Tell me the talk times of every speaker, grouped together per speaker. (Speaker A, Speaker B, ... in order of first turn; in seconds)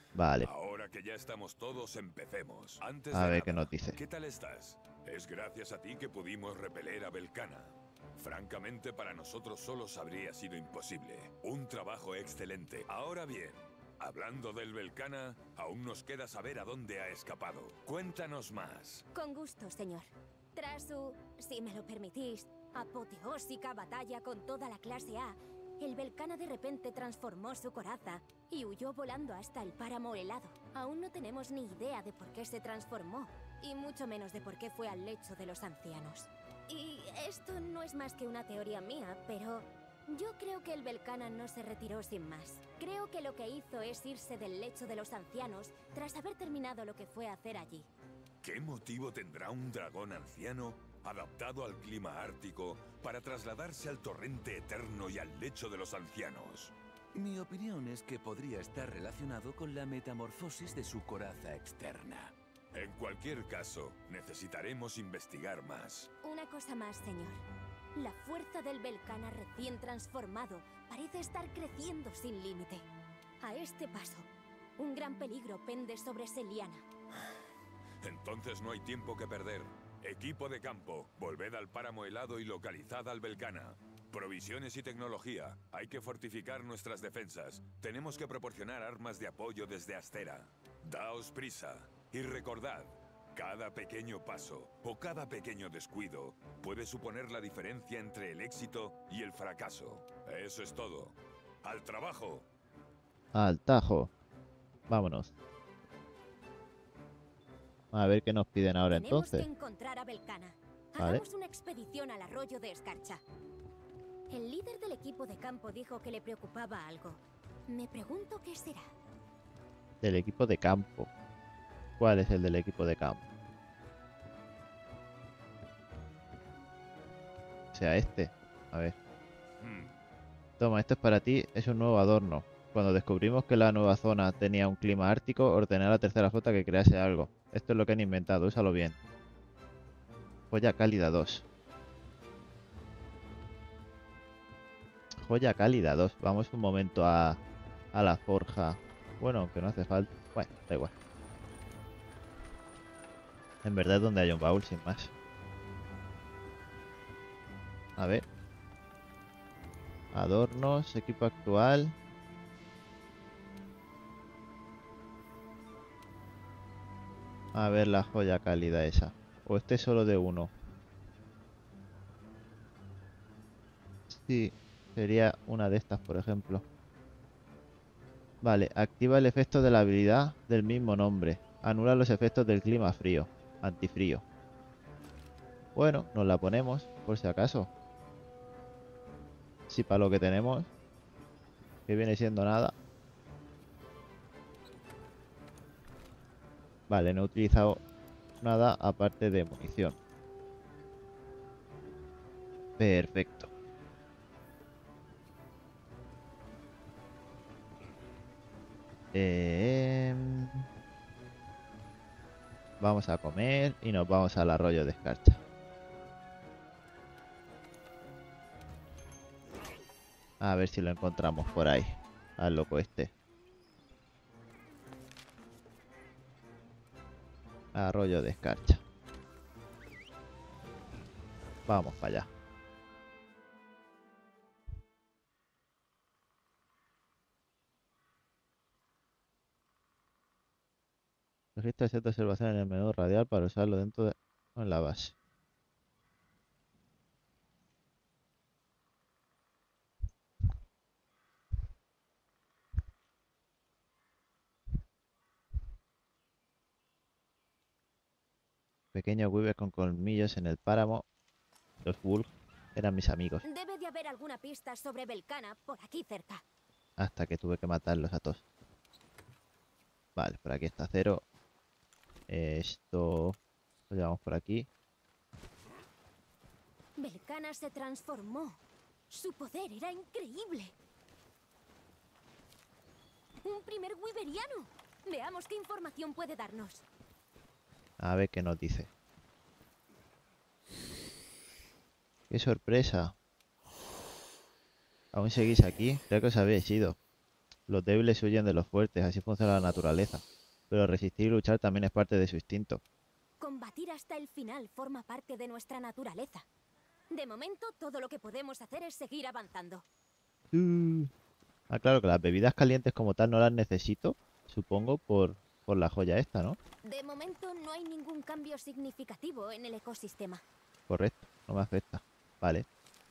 Speaker A: 0.1-0.5, 3.1-4.0, 103.3-104.1, 104.9-105.3, 107.9-109.5, 120.0-121.1, 122.0-123.3, 127.7-128.9, 130.6-139.0, 140.5-141.4, 145.2-147.4, 147.9-150.9, 153.6-155.1, 158.0-158.2, 160.1-161.9, 167.5-170.5, 174.1-176.6, 178.4-184.2, 185.8-187.7, 189.7-190.7, 191.9-192.7, 196.9-197.8, 198.4-199.9, 202.8-203.5, 209.1-210.7, 212.8-215.4, 220.4-223.1, 227.7-228.8, 231.7-232.3, 241.6-245.1, 258.9-261.0, 261.8-263.4, 267.0-268.4, 270.1-271.2, 272.3-273.4, 273.9-274.7, 288.0-288.9, 292.3-293.1, 295.1-297.0, 297.7-302.8, 310.5-311.1, 311.7-316.6, 320.9-322.6
Speaker B: 0.4-19.1, 48.4-56.7, 62.7-66.1, 78.0-102.5, 129.6-129.9
Speaker C: 19.1-47.9, 66.2-67.4, 67.9-72.8, 73.4-76.8, 108.9-113.2, 114.3-118.9, 263.4-266.4, 277.0-278.6, 279.1-280.7, 283.4-286.8, 303.4-306.4, 307.1-309.8, 316.8-320.4
Speaker D: 57.1-62.3